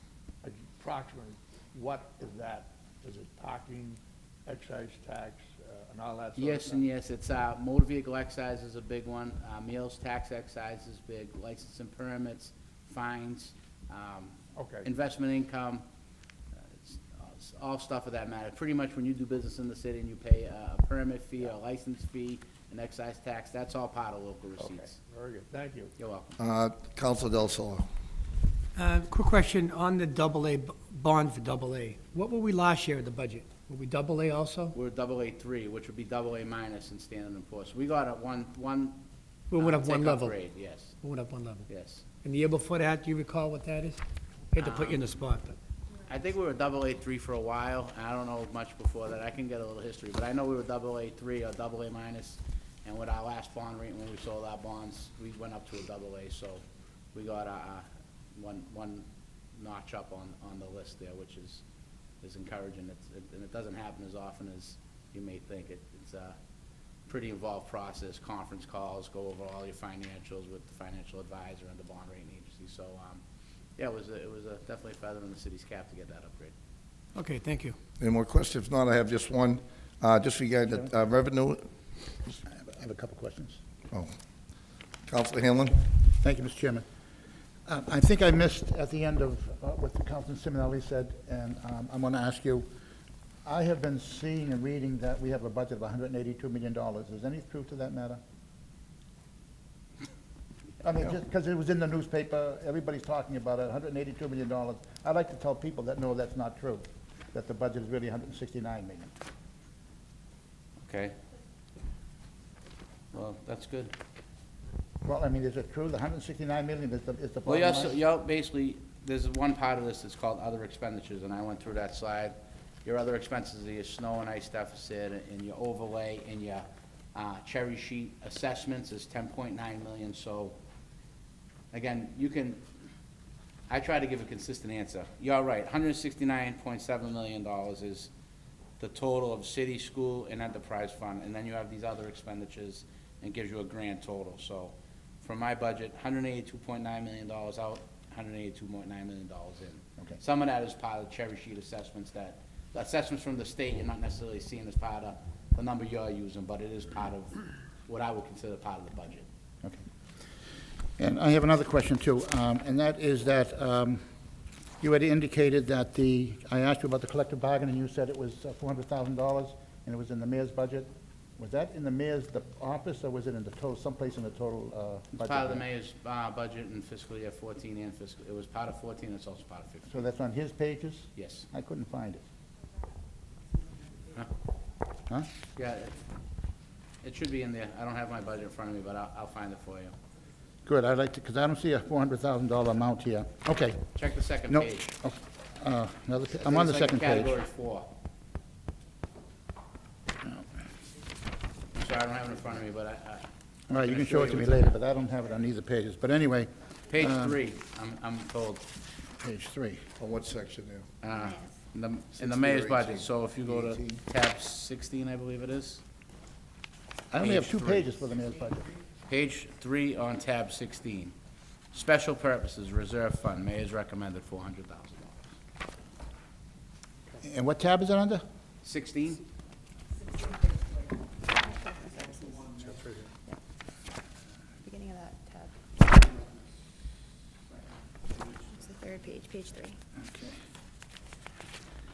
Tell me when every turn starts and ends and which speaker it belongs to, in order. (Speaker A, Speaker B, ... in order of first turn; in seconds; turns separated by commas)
Speaker A: 0.4-6.8, Speaker B: 6.4-15.8, Speaker A: 14.6-14.9, Speaker B: 16.7-24.9, Speaker A: 24.6-25.9, Speaker B: 26.0-26.3, Speaker C: 26.4-27.9, Speaker D: 28.8-34.8, Speaker B: 34.8-39.0, Speaker D: 39.5-40.4, Speaker B: 39.5-41.0, Speaker D: 41.0-41.7, Speaker B: 41.7-42.0, Speaker D: 42.2-44.0, Speaker D: 44.5-45.6, Speaker B: 44.6-45.1, Speaker B: 46.1-56.6, Speaker B: 57.1-59.1, Speaker B: 59.6-61.6, Speaker B: 62.2-66.4, Speaker B: 67.1-73.2, Speaker B: 73.8-76.5, Speaker D: 77.2-77.8, Speaker C: 78.0-81.7, Speaker E: 82.5-83.6, Speaker C: 85.1-85.8, Speaker E: 86.2-86.8, Speaker E: 87.7-92.7, Speaker E: 93.5-98.2, Speaker E: 100.8-109.1, Speaker B: 110.8-111.2, Speaker B: 113.1-113.9, Speaker E: 115.0-118.0, Speaker B: 117.5-130.6, Speaker B: 131.7-132.6, Speaker B: 133.7-138.1, Speaker B: 138.8-159.3, Speaker E: 161.0-164.0, Speaker E: 164.8-175.7, Speaker B: 175.2-180.0, Speaker E: 179.9-182.2, Speaker B: 181.2-181.5, Speaker B: 185.6-185.9, Speaker B: 187.0-189.9, Speaker E: 190.7-193.8, Speaker B: 193.9-194.9, Speaker E: 194.5-197.4, Speaker B: 196.4-197.9, Speaker B: 201.7-204.8, Speaker E: 203.7-207.4, Speaker B: 206.9-208.7, Speaker E: 209.2-209.9, Speaker C: 210.0-210.9, Speaker B: 211.0-215.8, Speaker F: 211.1-211.6, Speaker C: 212.2-214.0, Speaker B: 217.1-218.0, Speaker E: 217.1-218.7, Speaker B: 219.1-221.2, Speaker B: 221.7-225.2, Speaker E: 227.2-228.2, Speaker B: 228.6-229.2, Speaker F: 231.4-232.4, Speaker F: 234.6-235.6, Speaker F: 238.5-239.8, Speaker E: 240.0-240.4